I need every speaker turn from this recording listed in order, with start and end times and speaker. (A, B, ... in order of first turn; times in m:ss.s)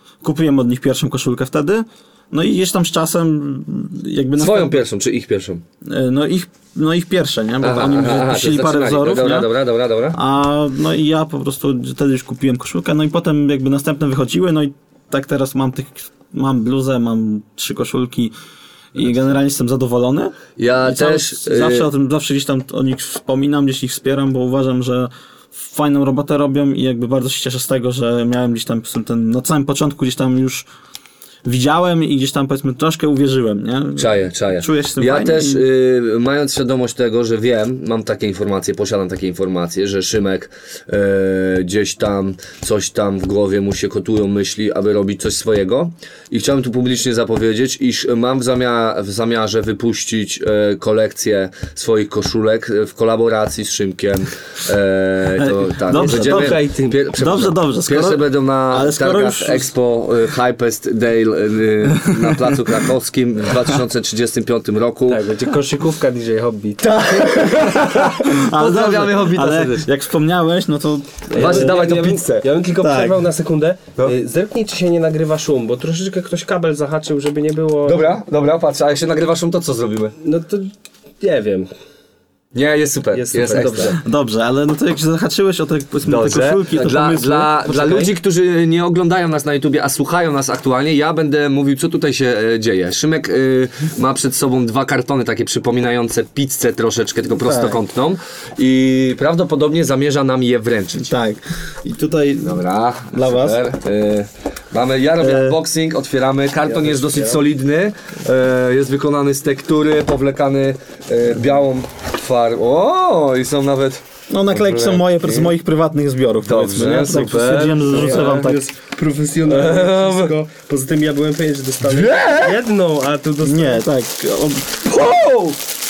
0:00.2-0:04.8 A
0:04.4-0:05.6 B
0:05.8-0:09.5 A
0:07.6-0:10.2 B
0:10.1-0:18.3 A
0:18.9-0:30.7 A
0:20.6-0:21.9 B
0:31.4-0:35.6 A
0:34.0-1:05.2 B
0:55.4-0:56.6 A
0:55.9-0:57.0 C
0:57.1-0:59.7 A
1:02.0-1:02.6 A
1:05.1-1:07.5 C
1:06.8-1:09.9 B
1:07.8-1:11.8 A
1:11.3-1:18.0 C
1:11.3-1:12.5 B
1:12.8-1:13.2 A
1:17.8-1:20.2 B
1:20.2-1:21.7 C
1:22.5-1:24.0 B
1:23.1-1:24.0 C
1:23.9-1:28.1 A
1:26.0-1:41.1 B
1:37.4-1:37.8 A
1:41.0-1:43.6 A
1:42.4-1:55.5 B
1:45.2-1:45.6 A
1:46.6-1:47.4 C
1:54.3-1:58.6 A
1:56.4-1:58.5 B
1:57.9-2:03.8 C
1:59.4-2:00.3 B
2:01.9-2:02.5 B
2:03.4-2:05.0 A
2:05.0-2:05.5 B